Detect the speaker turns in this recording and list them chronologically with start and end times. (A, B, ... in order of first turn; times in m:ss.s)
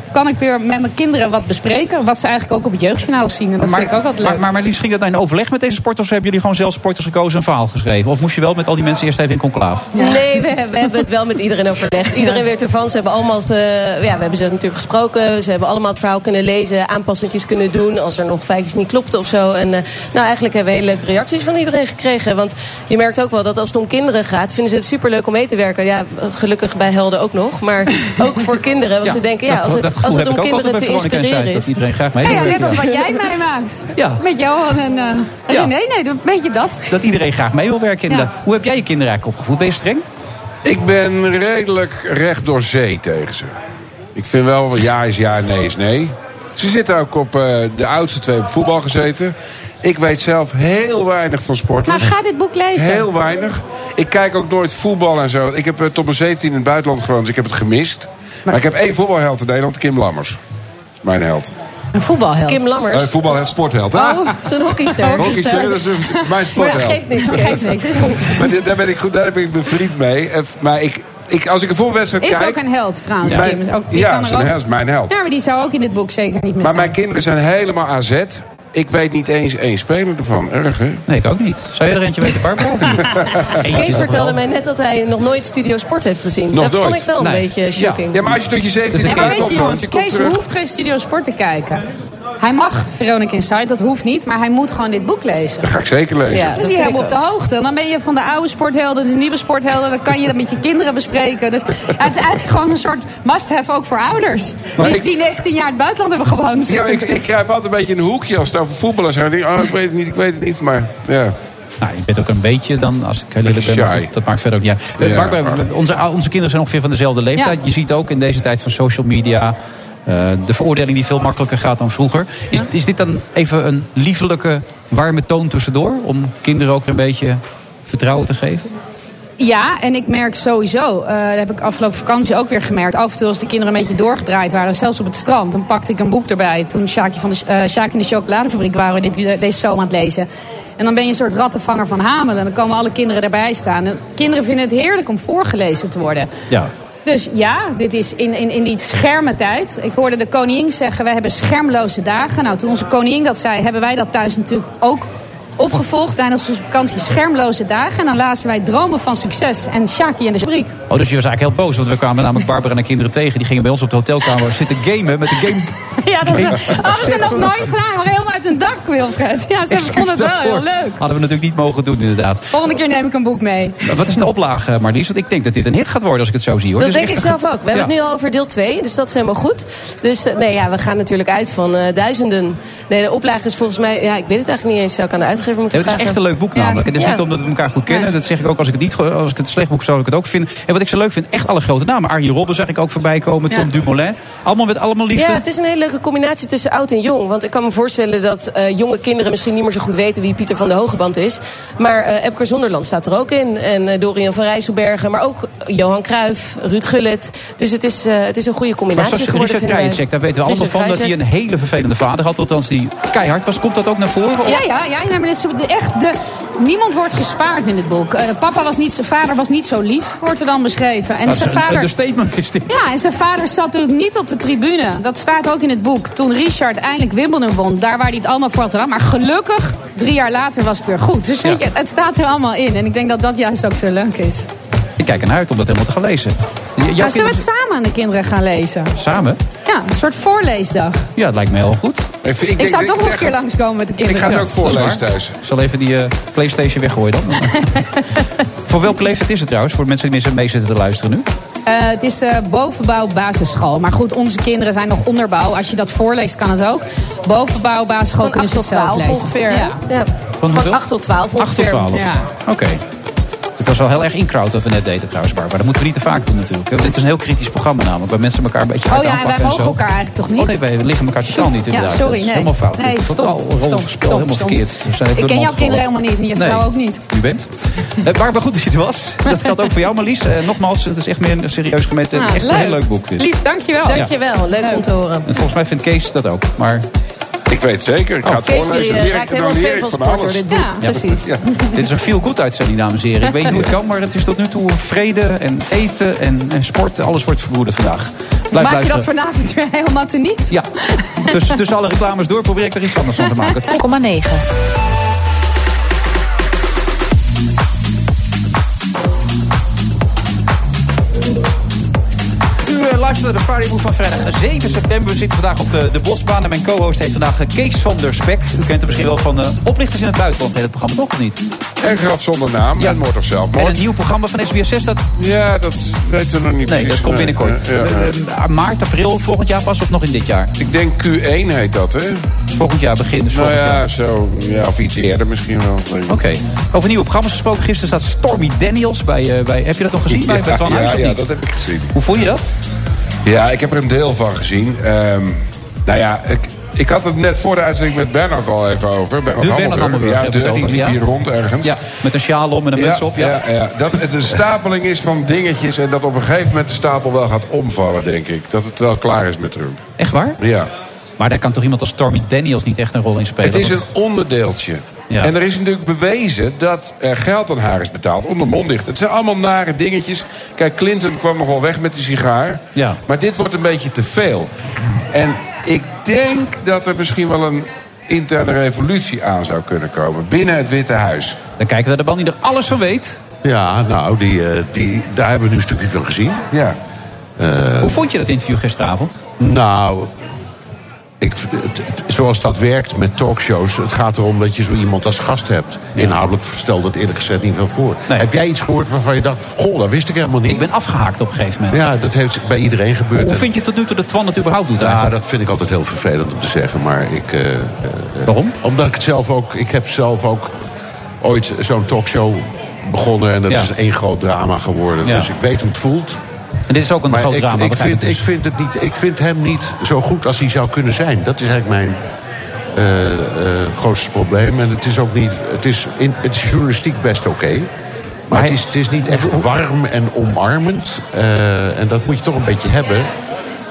0:00.1-0:04.4 A
0:03.6-0:09.9 B
0:10.0-0:10.3 A
0:10.0-0:33.1 C
0:12.2-0:12.4 A
0:29.0-0:32.8 B
0:32.2-0:37.1 A
0:34.0-0:34.2 B
0:36.9-0:40.0 B
0:40.6-0:43.5 D
0:44.2-0:52.1 D
0:51.9-0:53.1 A
0:52.8-1:00.4 D
1:01.0-1:01.5 D
1:02.0-1:02.7 A
1:02.5-1:03.4 C
1:02.9-1:04.4 D
1:03.9-1:04.3 A
1:04.0-1:05.9 C
1:05.0-1:08.5 A
1:05.1-1:07.7 D
1:06.5-1:08.4 C
1:08.2-1:12.6 D
1:12.2-1:14.5 A
1:13.2-1:15.1 D
1:15.1-1:16.9 A
1:16.6-1:21.0 D
1:21.1-1:24.4 B
1:23.7-1:28.4 C
1:26.5-1:27.1 D
1:27.2-1:28.1 B
1:28.1-1:30.4 D
1:28.9-1:29.6 B
1:29.0-1:31.8 A
1:32.4-1:35.7 A
1:35.6-1:36.6 D
1:36.3-1:37.2 C
1:36.6-1:47.0 A
1:44.8-1:45.1 D
1:46.7-1:51.4 D
1:51.8-2:08.7 B
1:53.5-1:54.1 D
1:55.0-1:55.6 D
2:09.4-2:20.3 A
2:20.8-2:26.3 A
2:27.0-2:40.7 A
2:40.9-2:45.7 B
2:46.0-2:51.0 A
2:46.2-2:47.5 B
2:49.7-2:52.4 B
2:52.5-2:53.9 A
2:53.8-2:57.9 B
2:56.8-3:06.2 C
3:05.7-3:15.4 B
3:06.6-3:06.9 A
3:06.9-3:07.2 C
3:15.2-3:31.1 C
3:29.0-3:34.6 B
3:34.5-3:41.9 A
3:41.3-3:42.8 B
3:42.7-3:54.5 A
3:55.0-3:57.4 B
3:57.0-3:58.9 A
3:59.0-3:59.4 B
3:59.7-4:01.1 A
4:01.2-4:02.1 B
4:02.2-4:03.4 D
4:02.6-4:04.5 A
4:04.0-4:05.3 D
4:04.2-4:07.8 B
4:08.7-4:11.3 B
4:11.7-4:19.8 A
4:18.2-4:22.0 C
4:20.4-4:20.8 B
4:21.4-4:22.8 B
4:21.9-4:22.3 A
4:23.6-4:29.8 B
4:28.9-4:30.6 A
4:30.4-4:43.3 B
4:31.2-4:34.6 A
4:35.2-4:37.0 A
4:42.2-4:44.1 A
4:43.9-4:45.3 C
4:44.6-4:44.9 A
4:45.3-4:46.9 B
4:47.5-4:51.4 D
4:48.2-4:51.3 C
4:50.5-4:50.9 A
4:50.8-4:51.1 B
4:51.4-4:51.8 A
4:51.7-4:59.1 B
4:58.5-5:01.4 A
5:01.3-5:03.8 B
5:03.3-5:03.8 A
5:12.6-5:21.4 B
5:21.8-5:23.8 D
5:23.6-5:25.0 B
5:25.2-5:28.1 D
5:26.7-5:30.5 B
5:30.6-5:32.3 D
5:32.5-5:33.8 B
5:33.3-5:36.2 D
5:36.1-5:41.2 B
5:40.1-5:41.9 D
5:41.9-5:42.5 B
5:43.3-5:51.7 D
5:49.4-5:51.0 B
5:51.6-5:53.4 B
5:52.8-5:59.8 D
6:00.0-6:00.4 B
6:00.4-6:00.7 D
6:01.2-6:03.8 B
6:03.4-6:14.5 D
6:15.1-6:21.4 D
6:21.6-6:23.2 B
6:23.4-6:26.4 E
6:27.4-6:28.0 E
6:27.8-6:29.2 B
6:29.4-6:30.1 E
6:31.2-6:40.7 E
6:40.5-6:41.8 B
6:41.7-6:43.5 E
6:43.2-6:45.1 B
6:44.8-6:50.6 E
6:48.3-6:48.6 B
6:51.2-6:56.2 E
6:56.7-6:58.2 B
6:57.1-7:02.0 E
7:02.8-7:07.7 E
7:08.3-7:13.1 E
7:08.3-7:09.4 B